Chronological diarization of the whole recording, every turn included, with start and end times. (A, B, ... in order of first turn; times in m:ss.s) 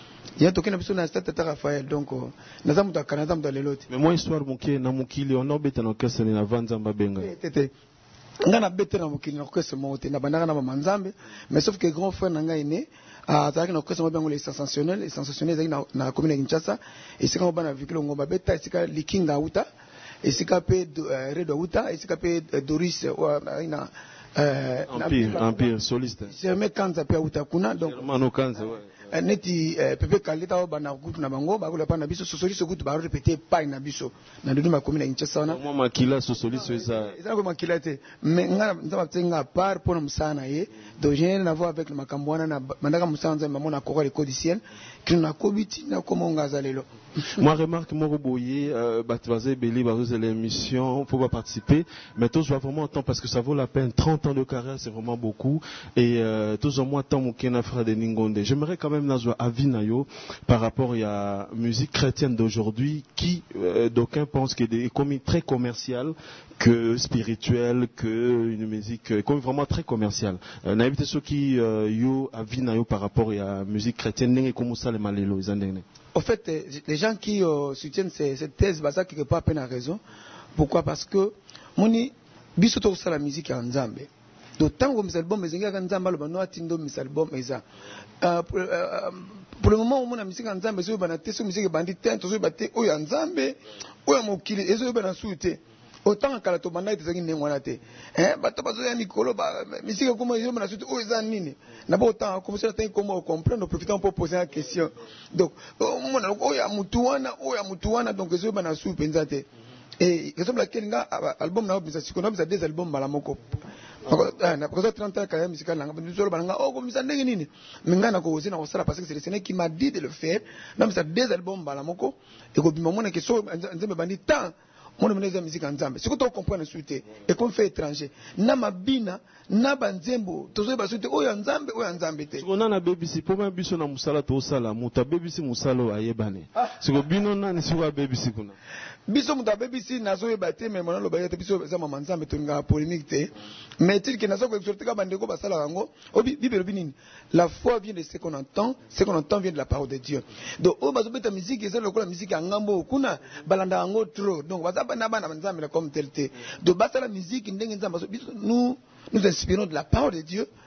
0:00.4-0:03.9 A
0:03.9-0:07.3 B
0:07.2-0:07.7 A
0:08.4-0:19.6 A
0:20.2-0:25.7 A
0:24.9-0:26.3 B
0:26.3-0:28.0 A
0:27.8-0:28.9 B
0:29.1-0:35.6 A
0:35.5-0:37.2 B
0:36.5-0:46.9 A
0:47.3-1:15.8 B
1:16.1-1:20.0 A
1:20.6-1:27.6 A
1:28.2-1:49.5 A
1:50.0-2:12.4 A
2:12.4-2:18.6 B
2:19.1-2:40.5 A